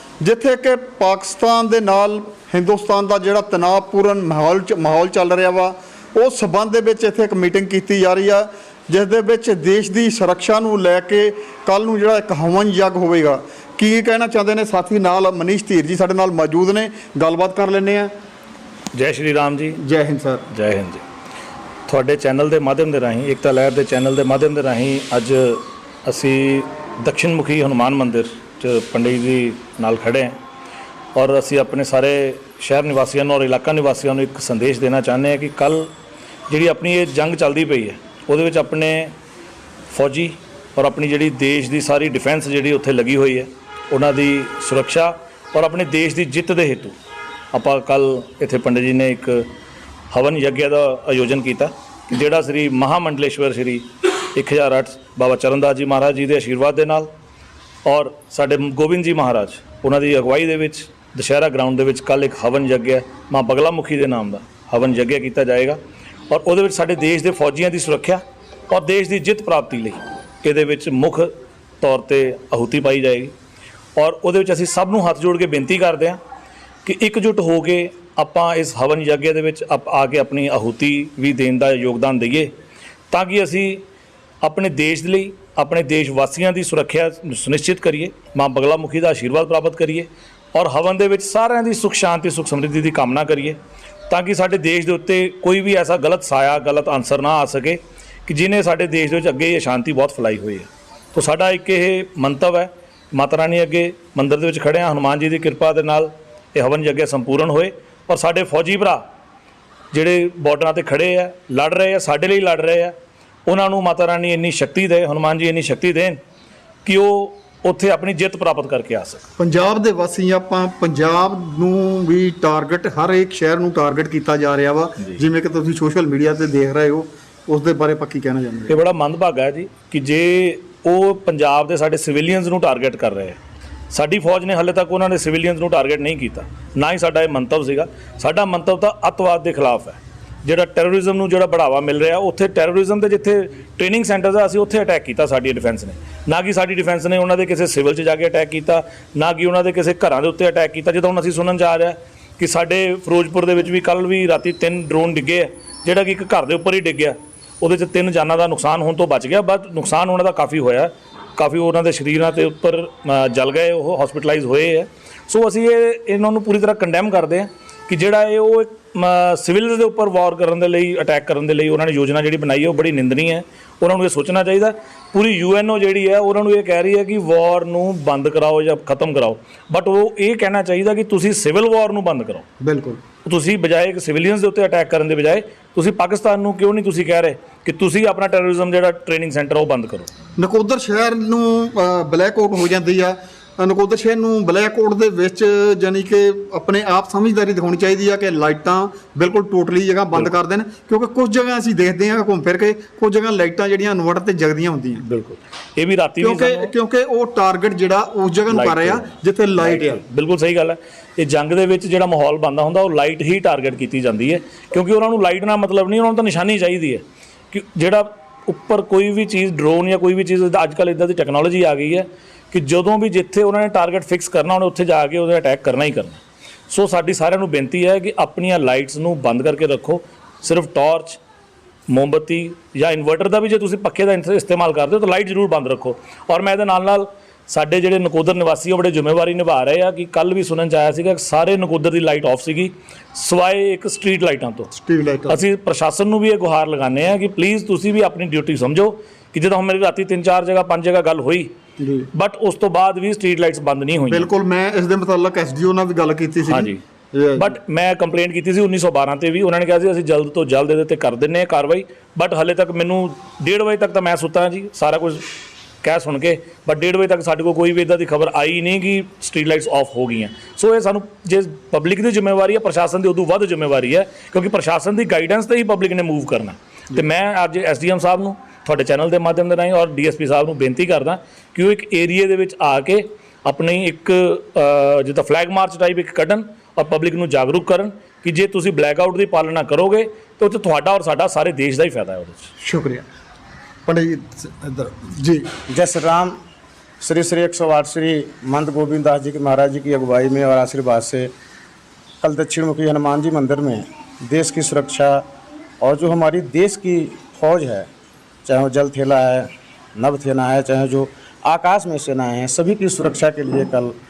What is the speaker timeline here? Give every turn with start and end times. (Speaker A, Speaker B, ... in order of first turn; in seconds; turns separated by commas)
Speaker A: 0.2-18.1, Speaker B: 18.9-19.8, Speaker A: 19.8-20.5, Speaker B: 20.5-21.0, Speaker B: 21.9-30.3, Speaker B: 31.1-35.9, Speaker B: 36.5-39.1, Speaker B: 39.9-47.0, Speaker B: 47.5-49.4, Speaker B: 50.1-57.1, Speaker B: 57.8-73.3, Speaker B: 74.0-76.2, Speaker B: 76.8-82.5, Speaker B: 83.1-83.8, Speaker B: 84.4-109.0, Speaker B: 109.9-112.9, Speaker B: 113.5-116.2, Speaker B: 116.8-119.2, Speaker A: 119.4-128.8, Speaker B: 128.7-133.4, Speaker B: 133.9-182.4, Speaker A: 182.6-183.0, Speaker B: 183.2-190.1, Speaker A: 190.4-205.0, Speaker B: 205.0-206.7, Speaker A: 206.2-210.0, Speaker B: 208.5-231.2, Speaker B: 231.9-244.7, Speaker A: 244.7-245.4, Speaker B: 245.3-251.5, Speaker A: 251.8-252.1, Speaker B: 252.1-254.3, Speaker A: 254.1-257.6, Speaker B: 256.4-256.8, Speaker B: 257.4-265.2, Speaker B: 265.8-292.5, Speaker A: 292.6-293.1, Speaker A: 293.9-295.5, Speaker C: 295.7-296.3, Speaker C: 297.0-301.3, Speaker C: 302.2-305.2, Speaker C: 305.8-307.9, Speaker C: 308.4-313.9